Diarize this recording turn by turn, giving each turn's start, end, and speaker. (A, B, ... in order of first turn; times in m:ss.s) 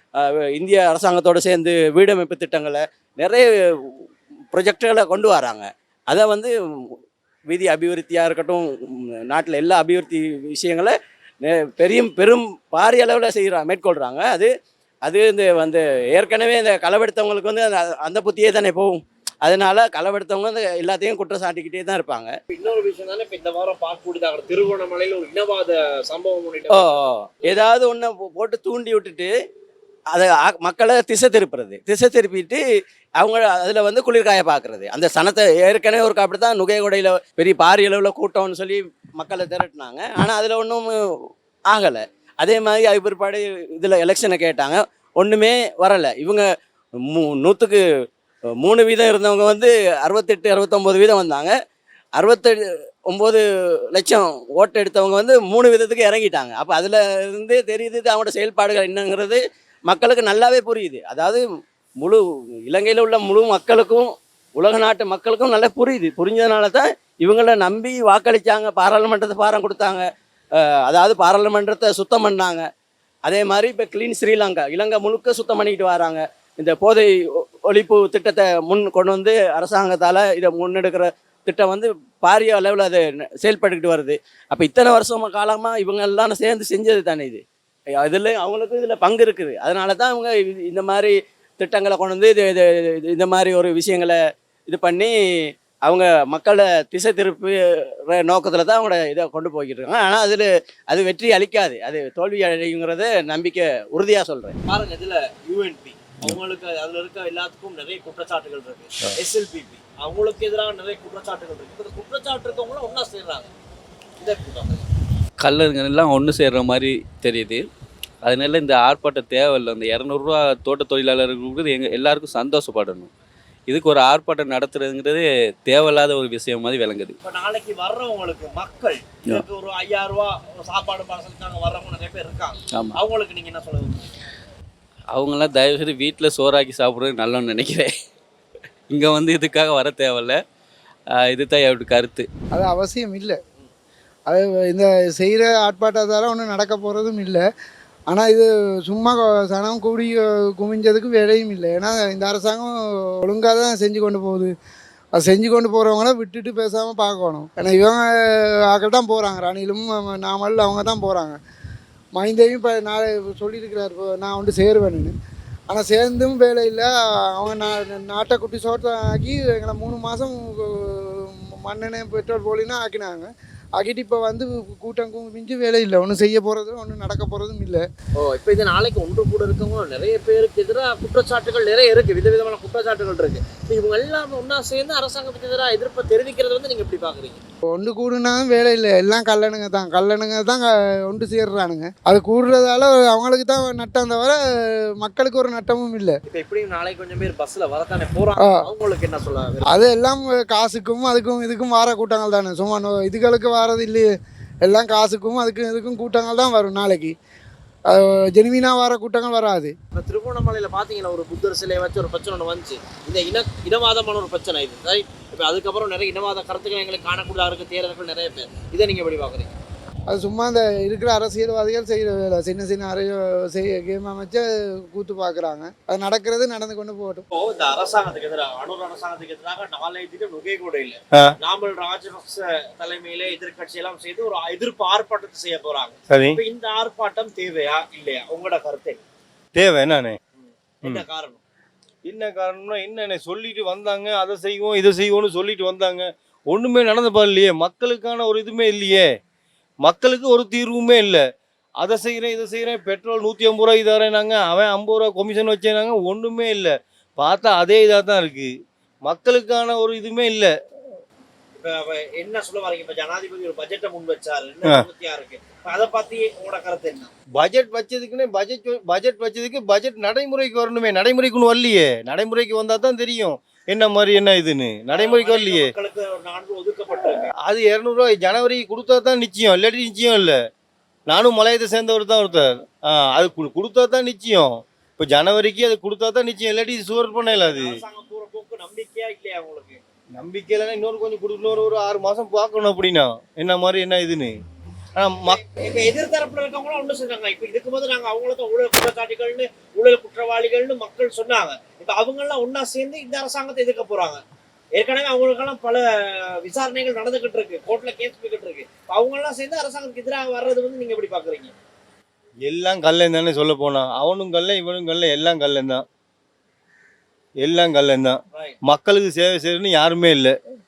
0:00.2-0:03.5 A
0:04.5-0:06.5 A
0:07.5-0:08.7 A
0:09.3-0:14.5 A
0:15.1-0:22.3 A
0:22.5-0:26.9 B
0:26.7-0:29.3 A
0:30.1-0:32.6 A
0:33.2-0:40.9 A
0:41.7-0:46.4 A
0:47.1-0:47.8 A
0:48.6-0:51.5 A
0:52.2-0:52.6 A
0:53.1-0:53.4 A
0:53.9-1:01.4 A
1:02.0-1:10.0 A
1:10.9-1:12.7 A
1:13.3-1:17.1 A
1:17.7-1:27.4 A
1:28.0-1:35.1 A
1:35.9-1:37.6 A
1:38.1-1:44.6 A
1:44.7-1:53.5 B
1:54.2-1:54.9 B
1:55.4-1:57.6 C
1:58.2-2:03.1 C
2:03.7-2:07.2 C
2:07.2-2:14.1 B
2:12.7-2:13.0 C
2:15.1-2:17.9 C
2:18.9-2:20.4 C
2:21.1-2:22.3 C
2:22.5-2:23.4 D
2:24.3-2:27.4 D
2:28.1-2:34.5 D
2:35.2-2:41.4 D
2:42.2-2:45.1 D
2:45.7-2:57.8 D
2:58.2-3:07.4 B
3:07.7-3:14.4 D
3:15.0-3:16.2 D
3:16.3-3:19.6 B
3:18.4-3:18.7 D
3:19.6-3:24.1 D
3:24.6-3:27.1 D
3:27.9-3:29.7 D
3:30.0-3:39.6 B
3:40.1-3:47.3 D
3:47.3-3:59.0 B
3:56.1-3:56.4 E
3:59.6-4:00.2 E
4:00.4-4:01.4 B
4:02.1-4:09.1 E
4:09.8-4:11.2 E
4:11.8-4:18.5 E
4:19.1-4:20.5 E
4:21.6-4:27.1 B
4:27.4-4:35.7 E
4:34.9-4:37.3 B
4:37.4-4:40.4 E
4:41.1-4:44.5 E
4:45.0-4:47.8 E
4:47.3-4:49.8 B
4:50.2-4:54.3 E
4:55.0-4:55.4 E
4:55.3-5:04.2 B
5:04.8-5:05.8 B
5:06.4-5:11.5 B
5:12.4-5:15.8 E
5:17.4-5:20.3 E